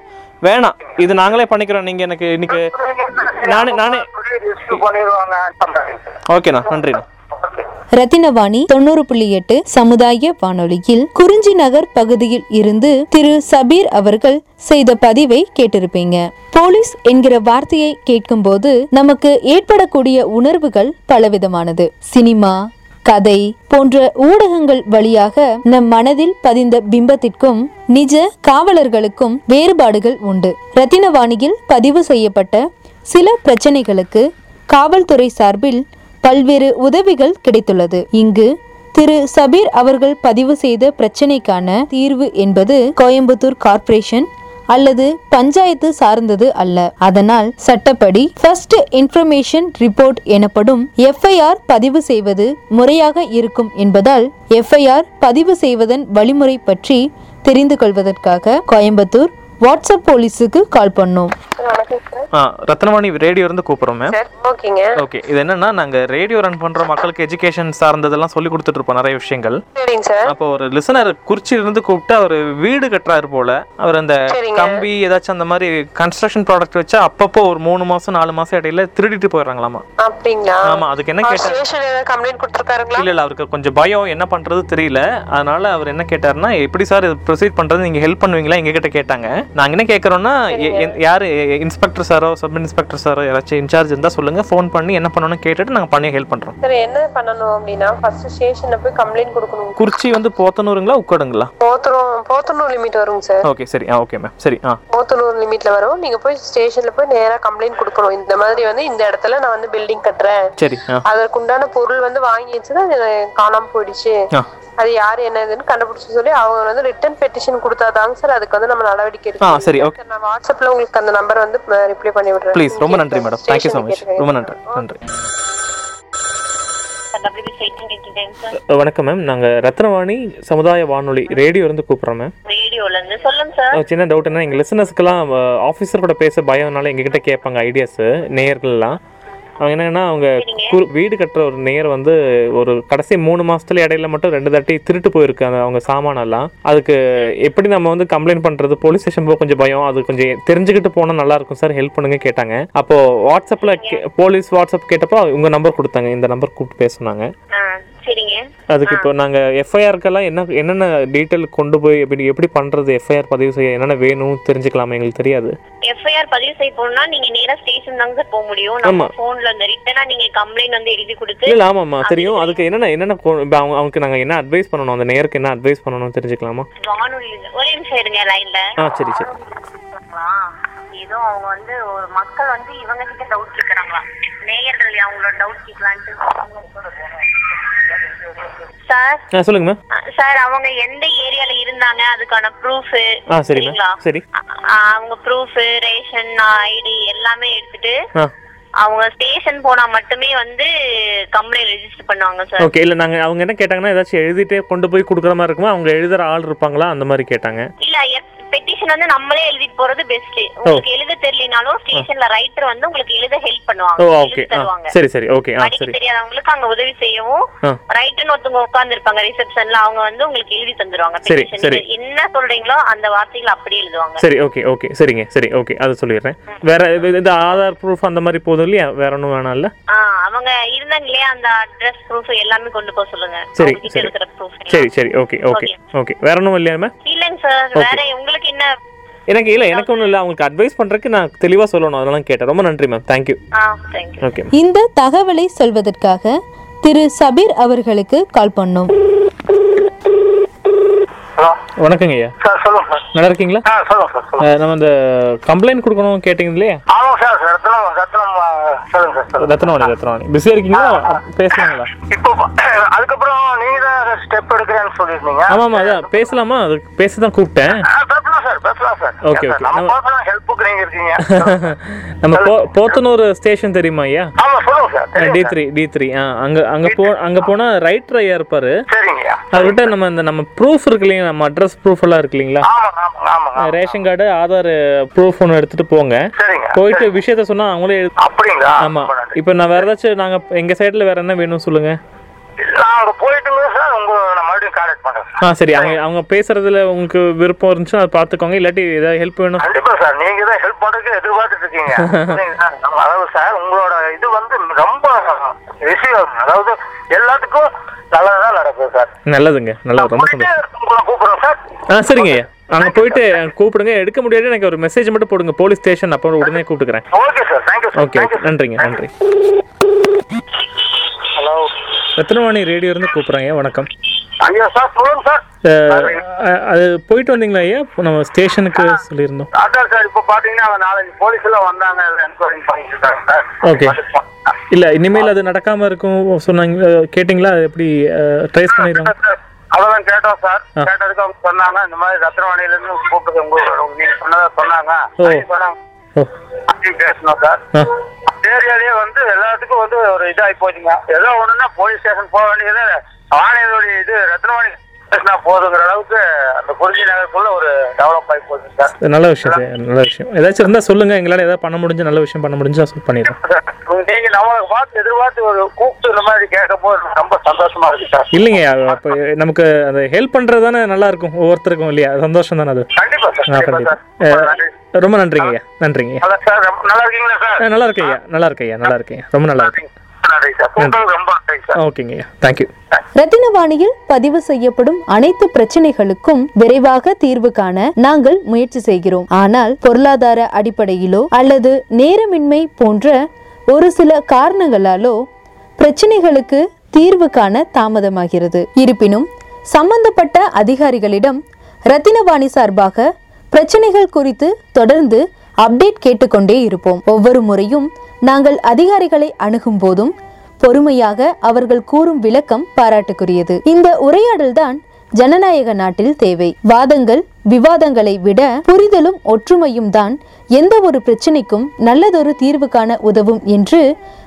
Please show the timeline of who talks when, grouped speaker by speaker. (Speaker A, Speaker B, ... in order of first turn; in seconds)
Speaker A: 0.5-2.7, 3.4-4.1, 6.3-7.0, 62.4-64.2, 65.0-69.6, 70.3-79.8, 80.7-81.6, 83.0-96.5, 99.8-101.5, 103.5-104.8, 110.6-111.0, 119.4-120.0, 122.5-125.0, 128.7-132.3, 133.7-139.0, 139.6-157.3, 158.7-165.5, 168.8-169.1, 171.5-176.7, 178.8-179.3, 189.3-189.8, 193.3-194.2, 202.6-207.7, 214.0-215.9, 221.3-221.8, 224.2-229.7, 233.6-234.1, 234.7-236.9, 237.8-238.0, 239.3-243.4, 244.2-244.5, 251.8-252.4, 253.1-253.7, 254.4-256.8, 259.4-261.9, 265.5-267.9, 269.2-269.9, 271.3-274.3, 275.2-278.7, 279.5-282.7, 283.6-286.2, 286.8-288.2, 288.8-292.0, 295.4-299.6, 302.0-302.4, 309.3-310.5, 311.9-317.1, 317.9-319.1, 322.2-323.9, 325.7-329.5, 333.6-334.0, 334.7-339.1, 359.0-363.4, 368.3-372.9, 373.5-376.2, 377.6-379.8, 381.8-382.7
Speaker B: 2.5-6.2, 7.3-7.7, 252.4-253.1, 253.7-254.5, 256.9-259.9, 260.7-261.2, 262.1-266.1, 267.9-271.7, 272.3-272.9, 274.4-275.6, 278.9-279.8, 282.6-283.9, 286.4-287.1, 288.2-289.9, 292.6-296.0, 299.6-309.1, 310.0-311.6, 312.1-313.3, 317.1-318.9, 321.4-321.7, 324.4-326.2, 329.6-334.3, 338.9-345.8, 346.7-347.6, 348.4-358.9, 363.4-368.5, 373.0-374.7, 376.2-377.7, 379.6-381.8
Speaker C: 8.0-61.3, 244.5-248.9, 383.2-393.2, 393.7-395.2, 395.8-423.8
Speaker D: 61.6-62.3, 64.1-64.9, 69.8-70.3, 74.3-74.8, 80.0-83.1, 90.5-91.0, 96.6-99.8, 101.6-103.5, 104.9-110.4, 111.1-114.2, 114.8-124.8
Speaker E: 127.2-128.6, 132.5-133.8, 140.4-140.8, 153.6-154.0, 157.5-159.1, 165.9-172.6, 176.8-189.2, 190.2-194.0, 194.8-198.0, 198.8-200.7, 201.3-202.7, 207.8-214.9, 215.6-217.4, 217.9-224.2, 229.9-234.9, 237.1-238.7, 239.7-240.1, 243.6-244.3